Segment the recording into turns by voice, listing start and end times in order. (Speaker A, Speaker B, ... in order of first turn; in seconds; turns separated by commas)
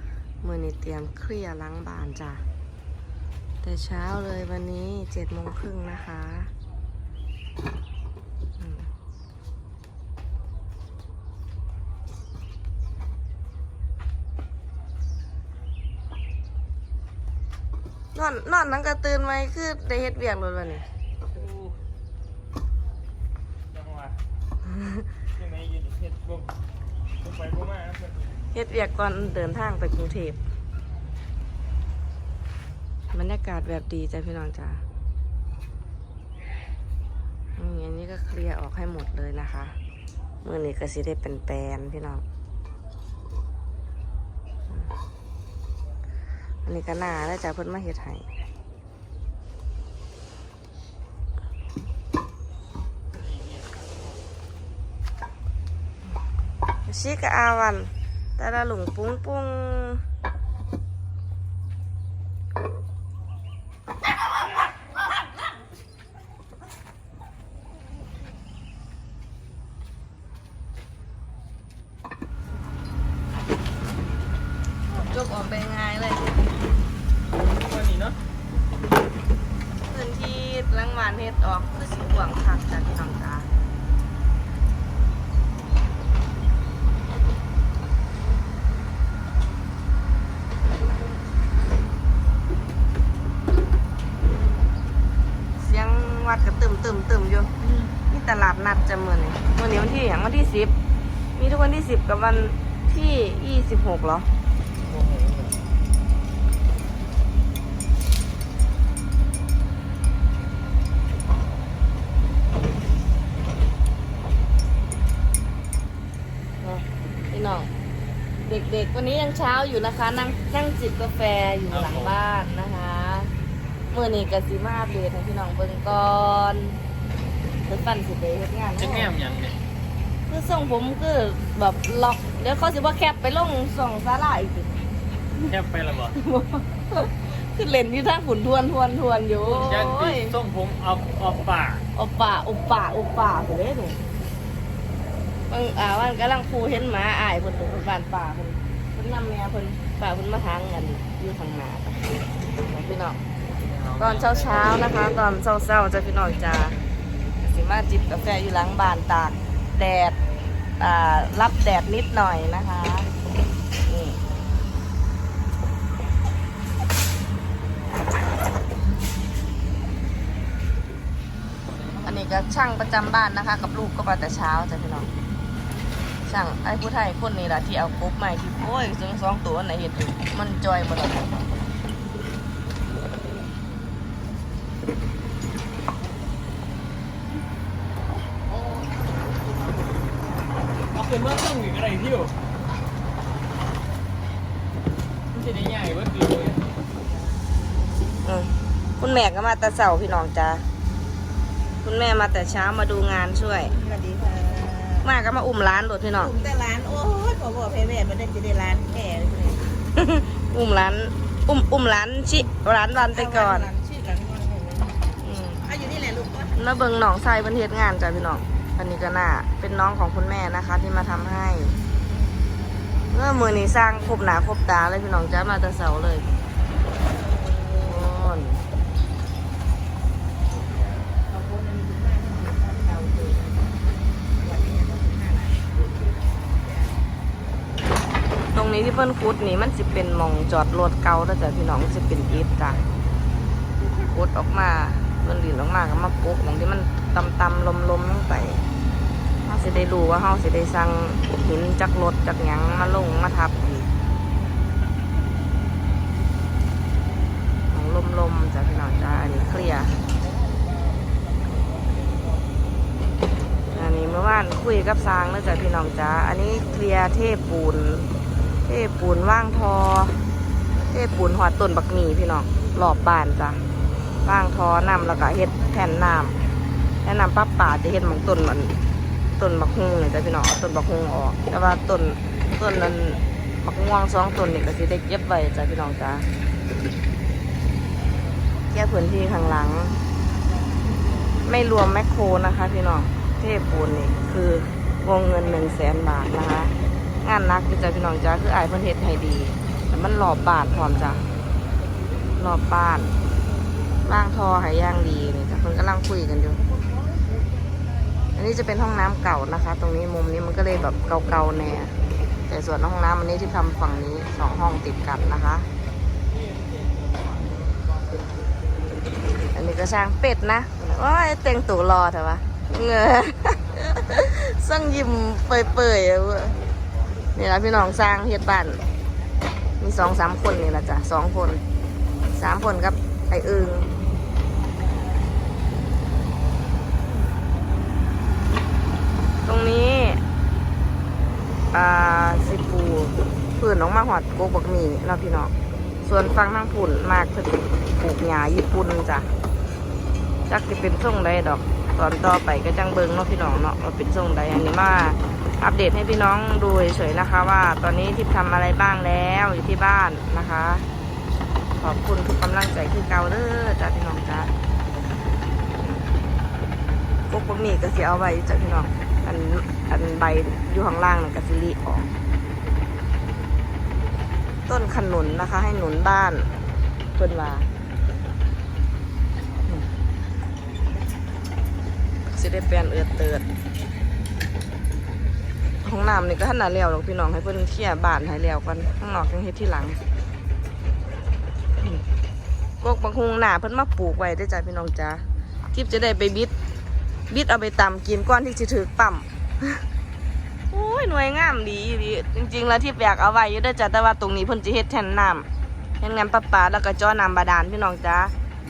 Speaker A: 0.4-2.4, Speaker A: 3.6-6.5, Speaker A: 8.6-8.9, Speaker A: 18.1-20.9, Speaker B: 21.3-21.7, Speaker B: 23.7-24.2, Speaker B: 25.4-26.5, Speaker B: 27.2-28.2, Speaker A: 28.5-30.4, Speaker A: 33.1-34.8, Speaker A: 37.6-39.8, Speaker A: 40.4-42.2, Speaker A: 46.7-48.3, Speaker A: 56.9-60.0, Speaker A: 74.9-76.3, Speaker B: 77.5-78.2, Speaker A: 79.9-83.5, Speaker A: 95.6-100.7, Speaker A: 101.4-104.3, Speaker B: 104.8-105.5, Speaker A: 116.6-117.7, Speaker A: 118.4-123.3, Speaker B: 121.7-122.2, Speaker A: 123.9-126.8, Speaker A: 127.7-129.1, Speaker B: 128.8-129.6, Speaker A: 130.3-134.7, Speaker B: 135.4-136.2, Speaker A: 136.2-140.4, Speaker B: 139.4-141.8, Speaker A: 141.9-144.0, Speaker A: 145.5-152.0, Speaker A: 152.7-153.2, Speaker B: 153.6-154.8, Speaker A: 154.0-156.8, Speaker A: 157.4-160.2, Speaker A: 160.8-163.1, Speaker A: 163.9-164.2, Speaker A: 172.0-175.1, Speaker A: 176.3-181.3, Speaker B: 190.9-192.3, Speaker B: 195.3-196.7, Speaker A: 198.2-200.7, Speaker A: 201.8-203.8, Speaker C: 203.8-205.0, Speaker A: 205.0-206.3, Speaker C: 206.3-209.6, Speaker A: 209.9-213.7, Speaker C: 213.4-214.9, Speaker A: 215.2-215.6, Speaker C: 215.7-216.5, Speaker A: 216.6-221.8, Speaker A: 223.1-226.3, Speaker A: 227.8-228.6, Speaker C: 231.3-233.5, Speaker C: 234.4-235.5, Speaker A: 238.5-242.8, Speaker A: 244.0-248.6, Speaker A: 249.5-253.9, Speaker A: 257.7-260.0, Speaker A: 263.7-268.1, Speaker A: 268.7-270.2, Speaker A: 270.9-273.6, Speaker A: 274.2-276.4, Speaker A: 277.0-278.8, Speaker A: 279.4-286.3, Speaker A: 288.7-290.0, Speaker A: 291.4-301.2, Speaker A: 302.4-303.1, Speaker A: 304.1-306.6, Speaker A: 308.4-311.9, Speaker A: 312.5-315.7, Speaker A: 319.5-326.6, Speaker A: 327.4-328.8, Speaker A: 329.8-331.6, Speaker A: 332.4-333.9, Speaker A: 339.4-340.2, Speaker A: 341.7-345.5, Speaker A: 346.0-349.3, Speaker A: 350.5-360.9, Speaker A: 361.8-364.5, Speaker A: 367.3-372.1, Speaker A: 374.7-376.5, Speaker A: 377.2-377.7, Speaker A: 382.3-383.5, Speaker A: 385.8-390.0, Speaker A: 392.8-396.5, Speaker A: 397.3-399.8, Speaker A: 400.7-405.4, Speaker A: 406.0-408.3